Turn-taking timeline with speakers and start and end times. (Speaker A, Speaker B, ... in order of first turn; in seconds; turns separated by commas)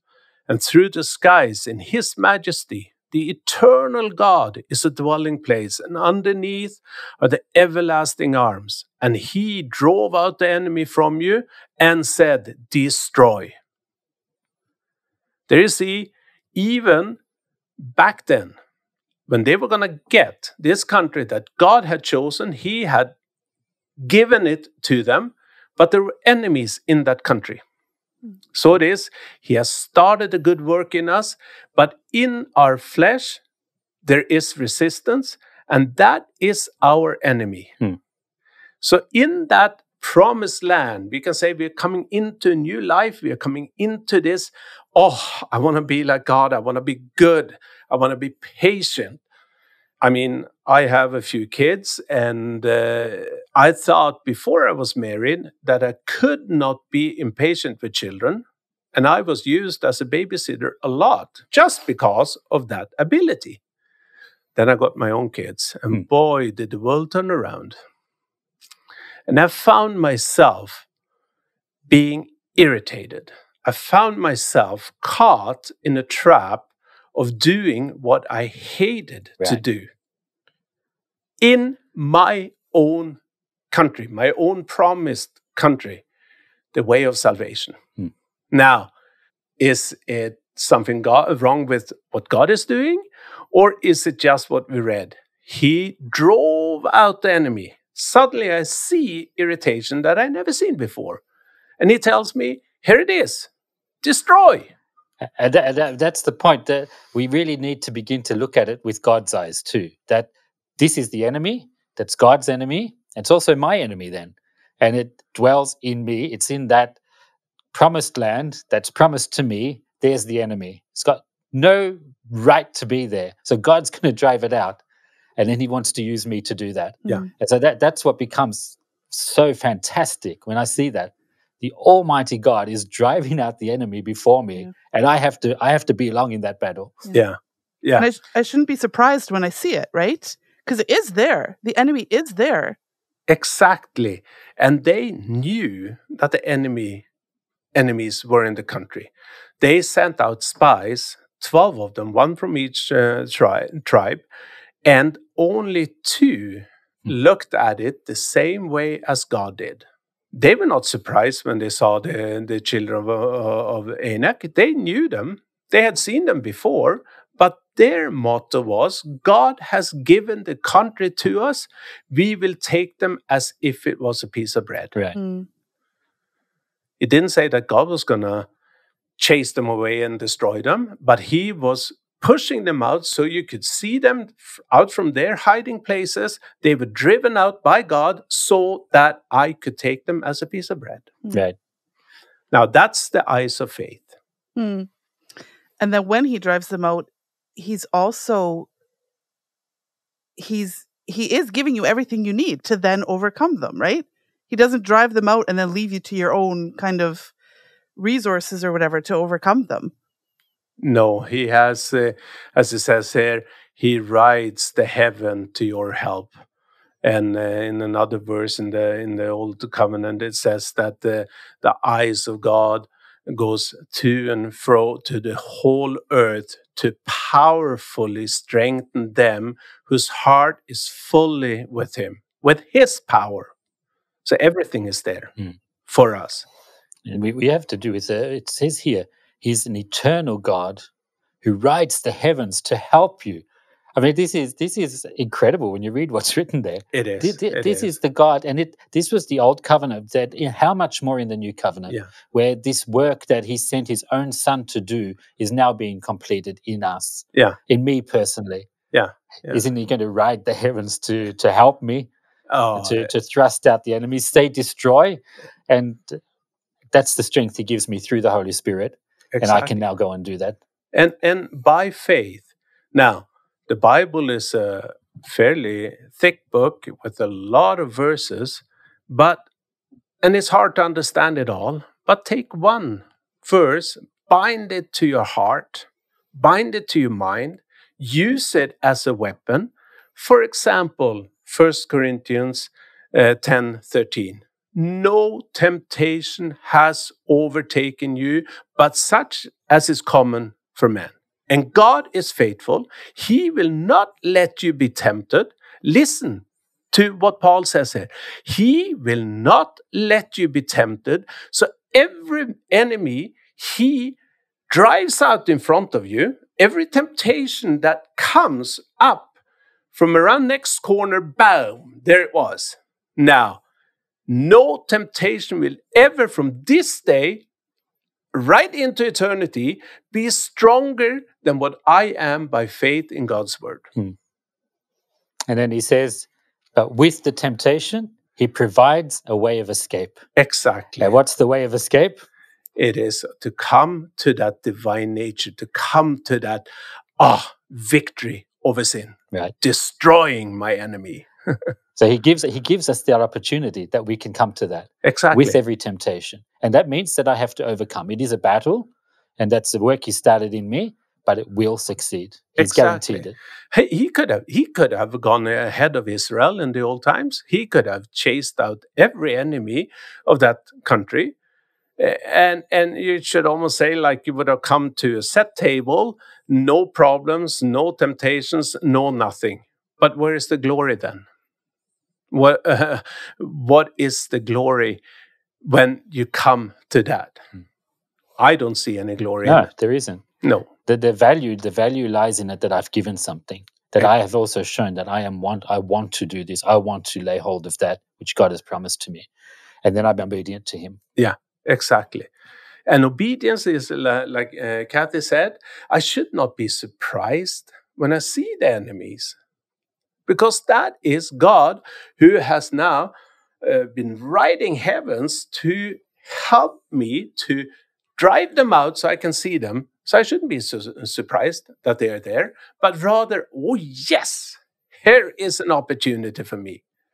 Speaker A: 0.5-13.5, Speaker A: 15.5-17.2, Speaker A: 17.8-18.6, Speaker A: 19.3-23.1, Speaker A: 24.0-27.6, Speaker A: 28.5-33.4, Speaker A: 34.0-37.8, Speaker A: 38.8-49.2, Speaker A: 50.0-63.6, Speaker A: 64.6-67.8, Speaker A: 69.3-70.8, Speaker A: 71.9-79.9, Speaker A: 81.4-83.2, Speaker A: 83.7-86.0, Speaker A: 86.7-87.8, Speaker A: 88.5-88.9, Speaker A: 89.6-101.2, Speaker A: 101.8-103.5, Speaker A: 104.0-104.7, Speaker B: 105.2-117.0, Speaker B: 117.7-124.8, Speaker B: 125.4-137.0, Speaker A: 137.1-138.1, Speaker C: 138.0-142.8, Speaker A: 143.3-147.1, Speaker A: 147.7-149.1, Speaker A: 149.6-154.2, Speaker A: 154.8-174.9, Speaker C: 175.2-175.5, Speaker A: 177.0-178.5, Speaker A: 179.2-191.1, Speaker A: 192.5-194.1, Speaker C: 194.6-194.9, Speaker C: 195.8-198.7, Speaker C: 200.4-207.3, Speaker C: 207.9-209.9, Speaker A: 210.8-216.3, Speaker A: 217.0-233.5, Speaker A: 234.2-235.3, Speaker A: 235.9-236.4, Speaker B: 237.1-240.9, Speaker B: 241.4-243.4, Speaker B: 243.9-258.7, Speaker A: 246.9-247.9, Speaker A: 258.9-259.6, Speaker B: 259.5-262.1, Speaker A: 262.5-263.1, Speaker B: 262.8-266.2, Speaker B: 266.9-270.6, Speaker A: 269.3-269.8, Speaker A: 270.9-279.4, Speaker A: 280.2-314.2, Speaker A: 314.7-319.3, Speaker A: 319.9-323.6, Speaker A: 324.3-327.4, Speaker A: 328.3-333.9, Speaker B: 335.5-340.2, Speaker A: 340.4-341.1, Speaker B: 341.0-342.2, Speaker A: 342.8-346.7, Speaker A: 347.2-351.3, Speaker B: 351.9-363.3, Speaker A: 355.0-355.6, Speaker A: 362.6-371.3, Speaker A: 372.0-381.2, Speaker A: 382.3-385.0, Speaker A: 385.6-387.4, Speaker A: 388.4-389.7, Speaker B: 389.4-390.2, Speaker A: 390.4-390.7, Speaker B: 390.8-399.3, Speaker B: 399.8-401.0, Speaker A: 401.2-402.3, Speaker A: 402.9-409.4, Speaker A: 410.3-426.8